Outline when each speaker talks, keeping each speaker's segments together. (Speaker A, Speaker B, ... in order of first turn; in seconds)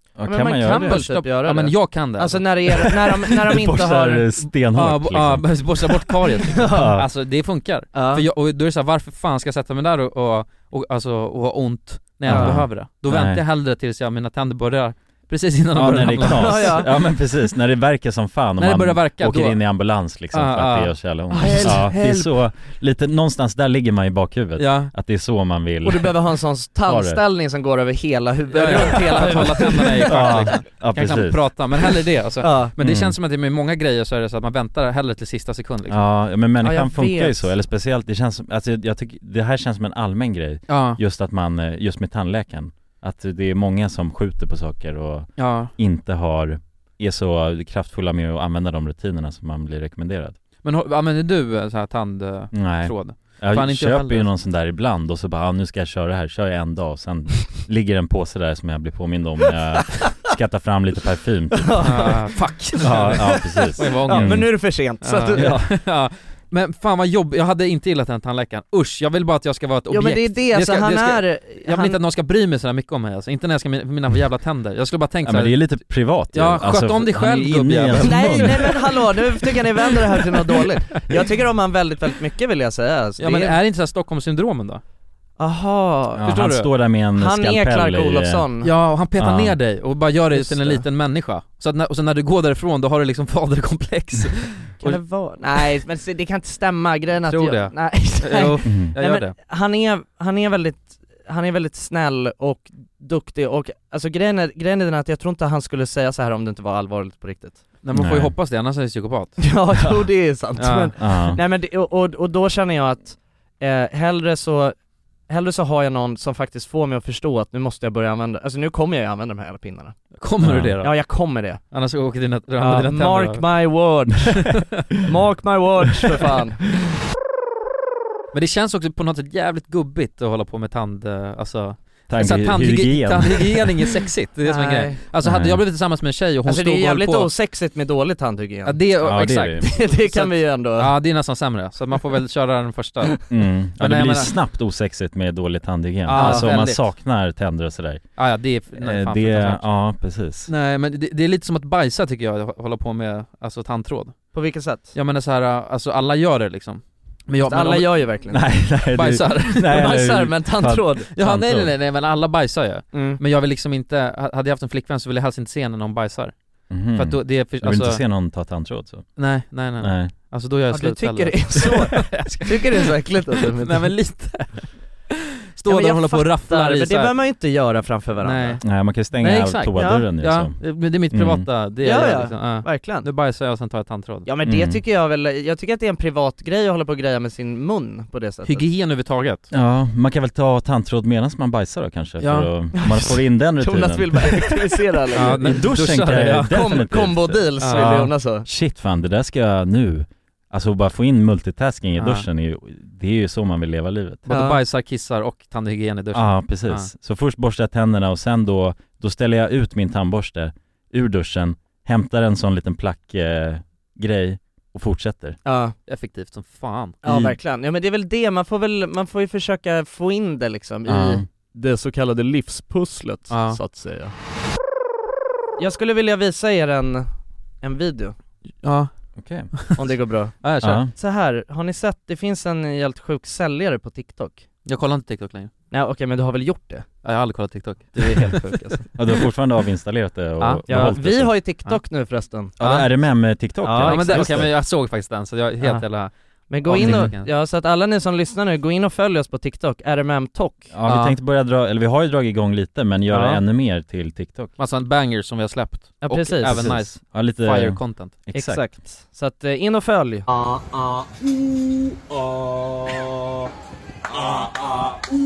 Speaker A: 0.2-1.1, 3.3-7.1, 12.3-13.4, 15.7-26.2, 26.9-27.2, 30.1-31.6, 32.8-33.2, 35.9-50.4, 52.5-62.1, 62.8-64.5, 65.3-65.7, 75.2-78.8, 86.2-88.5, 89.2-89.6, 98.6-98.9, 107.9-108.3, 111.0-111.4, 120.4-120.8, 132.1-133.9, 135.2-135.6, 139.0-139.7, 143.3-148.1, 148.8-150.5, 158.3-161.8, 166.7-169.2, 169.8-170.1, 178.6-180.6, 181.1-181.5, 184.4-184.8, 189.5-194.5, 195.2-204.2, 206.1-215.4, 217.0-217.4, 220.9-221.2, 229.2-229.7, 230.6-230.9, 239.0-241.3, 242.6-244.5, 246.8-247.1, 250.7-254.5, 256.4-258.6
Speaker B: 0.3-4.3, 6.5-6.9, 7.9-8.2, 12.3-12.6, 16.2-16.9, 21.3-22.3, 25.8-30.6, 32.4-32.7, 36.6-37.5, 61.5-65.5, 69.9-72.0, 78.0-83.6, 85.4-86.5, 87.2-88.7, 90.3-90.8, 94.8-107.6, 109.4-114.8, 115.3-120.0, 120.8-121.6, 122.6-126.6, 134.4-135.0, 136.5-138.8, 139.6-140.9, 146.1-146.5, 154.3-154.9, 157.5-158.4, 159.7-161.1, 162.9-163.2, 170.7-173.9, 175.7-178.6, 179.8-180.1, 181.8-183.1, 184.3-188.7, 192.8-195.4, 196.5-198.5, 204.3-204.6, 215.4-215.8, 217.0-224.1, 225.6-227.1, 227.6-228.2, 229.8-234.4, 235.7-236.9, 238.0-238.9, 240.7-242.9, 243.6-244.4, 246.5-250.7, 253.1-253.4, 256.0-256.8, 258.3-260.3
Speaker C: 0.7-2.8, 4.8-16.8, 18.6-19.6, 20.3-20.9, 21.5-21.8, 24.6-24.9, 28.5-36.0, 40.7-41.0, 45.4-45.7, 50.6-54.3, 61.8-75.8, 76.3-78.7, 83.2-84.8, 86.2-86.7, 88.6-95.0, 97.3-99.4, 107.8-109.4, 110.6-110.9, 120.2-121.0, 121.7-123.5, 128.3-137.3, 138.7-144.4, 146.1-146.8, 148.2-149.6, 150.5-154.3, 154.9-158.1, 158.9-159.9, 161.1-166.3, 166.9-168.0, 169.2-174.7, 175.6-177.2, 178.2-178.6, 179.2-184.3, 188.4-189.5, 192.2-192.5, 195.2-196.6, 197.6-198.1, 202.0-202.2, 204.3-206.9, 215.9-217.0, 223.3-223.6, 228.6-228.9, 230.4-230.8, 234.7-235.5, 237.0-238.8, 240.4-240.9, 243.8-246.1, 246.6-247.3, 250.9-251.2, 254.6-258.2